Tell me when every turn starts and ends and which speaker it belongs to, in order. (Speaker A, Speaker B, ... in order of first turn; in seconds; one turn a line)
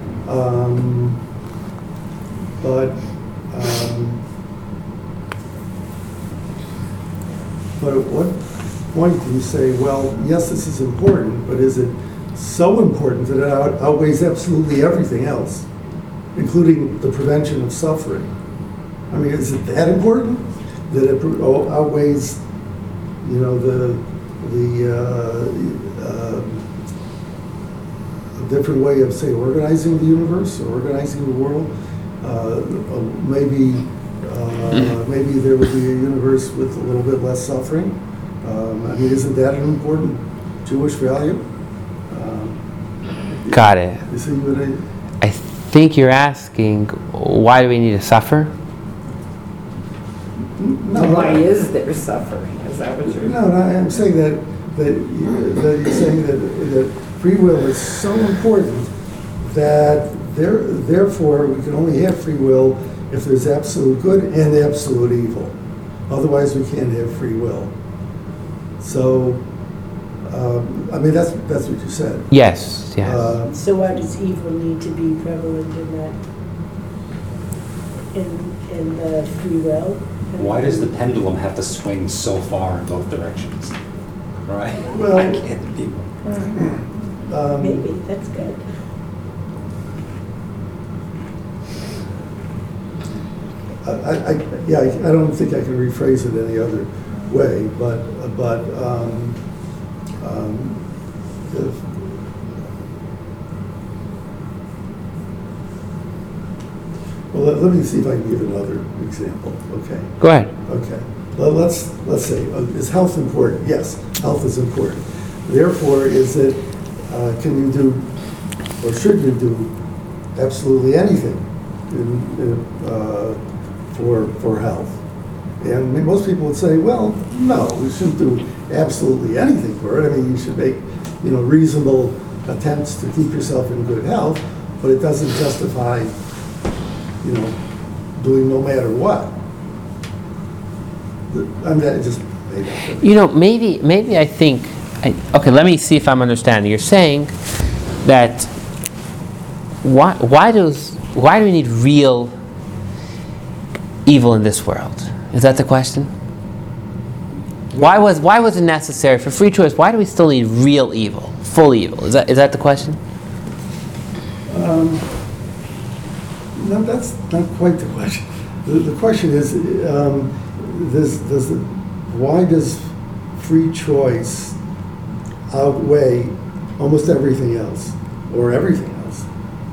Speaker A: 0.2-1.2
Speaker A: 2.6-4.2
Speaker A: 7.8-15.7
Speaker A: 16.3-18.3
Speaker A: 19.1-22.4
Speaker A: 23.2-26.7
Speaker A: 28.4-41.5
Speaker A: 42.1-42.6
Speaker A: 43.4-44.8
Speaker B: 43.5-44.0
Speaker B: 45.2-48.5
Speaker A: 50.5-51.5
Speaker C: 50.9-53.5
Speaker A: 53.0-58.9
Speaker A: 59.4-65.5
Speaker A: 66.1-67.7
Speaker A: 68.8-69.5
Speaker A: 70.2-72.3
Speaker B: 72.3-73.3
Speaker A: 73.0-73.6
Speaker D: 73.5-76.2
Speaker D: 78.1-80.9
Speaker E: 80.3-83.8
Speaker E: 84.4-86.2
Speaker A: 84.9-85.5
Speaker D: 86.2-86.6
Speaker A: 86.5-87.9
Speaker D: 87.6-88.6
Speaker A: 93.8-99.4
Speaker A: 100.2-100.8
Speaker A: 101.4-102.3
Speaker A: 107.3-118.1
Speaker B: 110.2-110.5
Speaker A: 118.8-119.7
Speaker A: 120.3-123.4
Speaker A: 123.9-125.0
Speaker A: 125.6-136.1
Speaker A: 137.2-137.6
Speaker A: 138.2-139.4
Speaker A: 141.3-143.1
Speaker B: 143.0-147.3
Speaker B: 148.0-148.5
Speaker B: 149.8-152.3
Speaker B: 154.1-156.1
Speaker A: 157.7-158.0
Speaker B: 157.8-163.0
Speaker A: 164.5-165.1
Speaker A: 166.5-174.6
Speaker A: 175.5-179.3